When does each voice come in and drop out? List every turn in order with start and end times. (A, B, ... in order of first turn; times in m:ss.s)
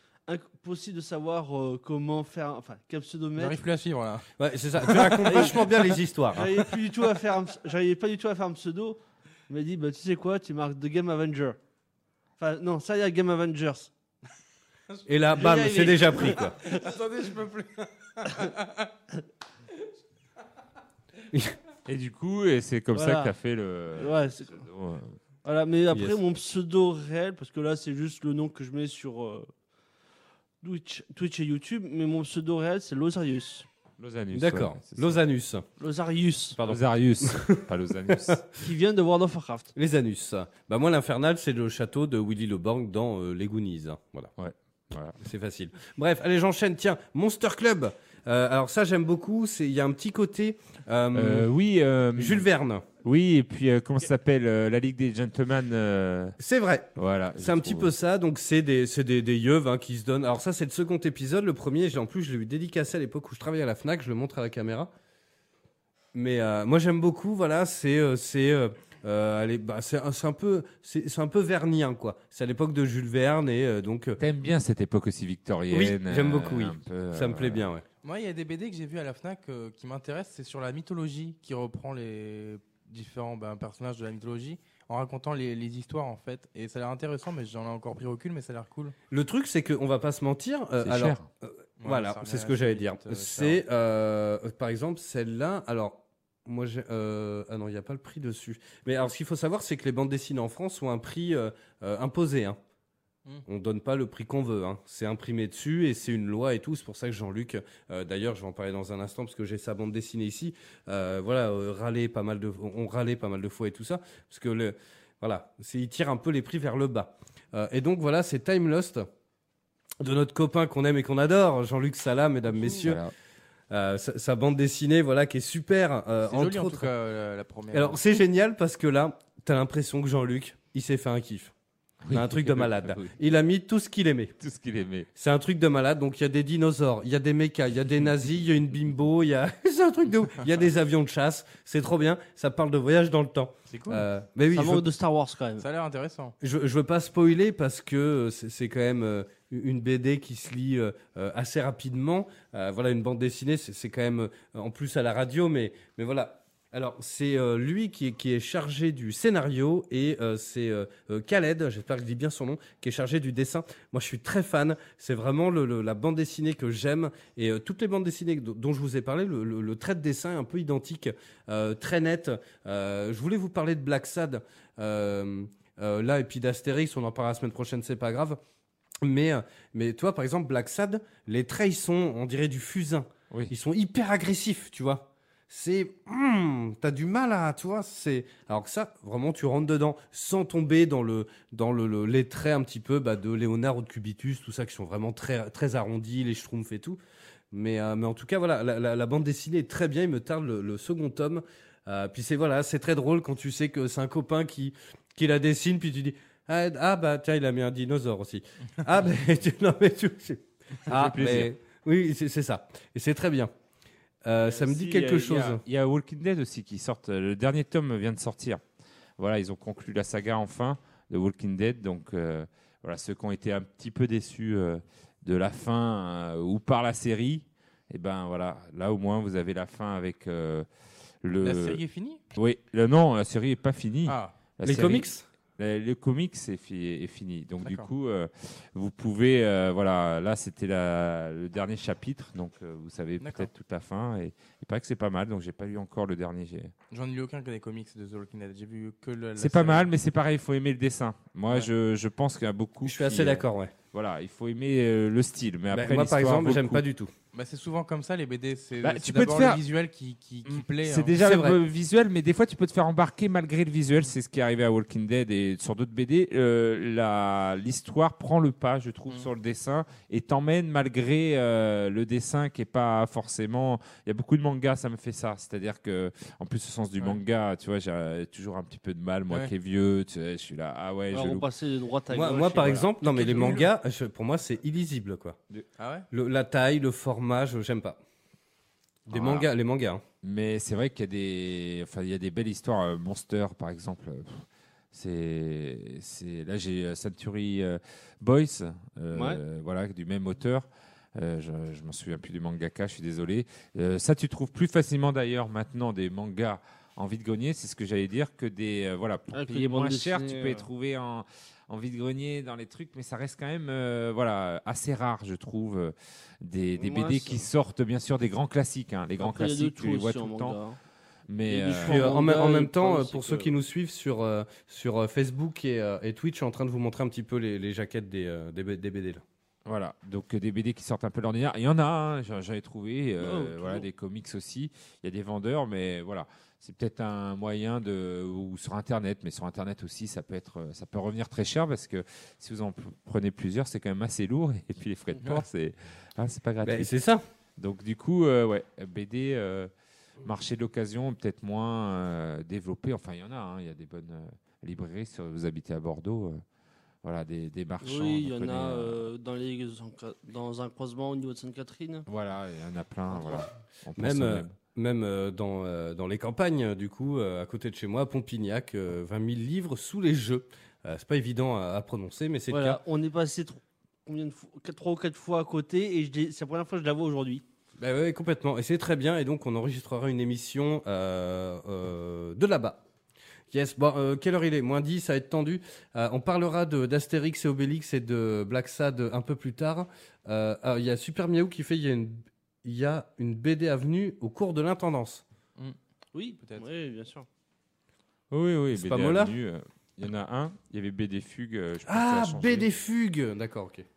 0:00.3-0:03.6 A
0:03.4-0:04.3 B
0:04.4-0:06.5 C
0:04.8-0:05.4 B
0:05.2-0:05.6 A
0:06.3-0:11.6 A
0:12.4-0:13.9 A
0:14.9-0:18.8 B
0:15.1-0:16.6 C
0:21.8-0:25.2 D
0:22.9-0:23.3 A
0:24.0-0:24.6 A
0:25.4-0:29.5 A
0:25.9-0:26.2 C
0:30.6-0:33.6 A
0:34.0-0:35.2 D
0:34.3-0:35.6 C
0:35.8-0:36.6 A
0:36.6-0:38.4 C
0:36.6-0:38.4 D
0:38.6-0:39.7 A
0:39.8-0:44.3 C
0:44.4-0:45.2 D
0:45.2-0:51.5 C
0:51.1-0:52.5 D
0:52.2-0:52.8 C
0:53.0-0:56.4 D
0:56.4-1:04.9 C
0:57.0-0:57.9 D
1:06.1-1:14.2 C
1:14.2-1:17.7 D
1:15.7-1:17.8 C
1:18.0-1:28.9 B
1:29.1-1:42.6 C
1:30.8-1:31.2 D
1:31.8-1:33.6 B
1:43.5-1:59.1 C
2:00.0-2:03.0 C
2:02.5-2:03.1 D
2:03.7-2:06.9 C
2:06.2-2:08.0 B
2:07.7-2:11.5 C
2:12.0-2:13.2 D
2:12.1-2:14.3 C
2:14.4-2:15.1 D
2:15.2-2:24.8 C
2:23.7-2:24.0 B
2:24.5-2:25.6 A
2:25.6-2:26.3 B
2:26.4-2:58.4 C
2:59.0-3:17.0 C
3:17.5-3:33.5 C
3:30.9-3:31.5 D
3:34.2-3:35.6 C
3:34.7-3:35.3 A
3:34.7-3:38.6 D
3:39.2-3:50.6 D
3:51.2-3:51.8 D
3:51.4-3:52.2 B
3:52.3-4:06.7 D
3:54.1-3:54.3 B
3:54.6-3:55.2 C
4:03.2-4:03.5 B
4:06.9-4:09.9 B
4:09.4-4:16.8 D
4:12.8-4:13.7 C
4:15.7-4:17.1 C
4:17.3-4:21.2 B
4:18.8-4:19.6 D
4:20.5-4:41.5 D
4:21.2-4:21.6 C
4:41.1-4:43.6 A
4:42.1-4:45.4 C
4:43.2-4:43.6 B
4:45.8-4:46.1 B
4:46.1-4:48.0 C
4:49.1-4:50.0 C
4:49.1-4:49.5 D
4:50.2-5:20.6 D
4:59.1-4:59.4 A
5:09.3-5:10.7 A
5:16.8-5:17.4 A
5:19.2-5:20.8 A
5:21.3-5:22.2 D
5:21.5-5:23.5 A
5:21.8-5:29.2 C
5:29.6-5:46.9 D
5:33.2-5:33.8 A
5:46.6-5:47.2 C
5:47.6-5:49.7 D
5:50.2-5:56.4 D
5:57.0-5:59.1 D
5:57.8-6:02.1 A
6:02.1-6:04.5 D
6:04.0-6:12.8 C
6:12.5-6:17.4 A
6:17.8-6:22.8 C
6:23.5-6:35.2 C
6:36.1-6:37.2 A
6:38.3-6:42.7 D
6:38.7-6:39.3 C
6:41.9-6:43.8 C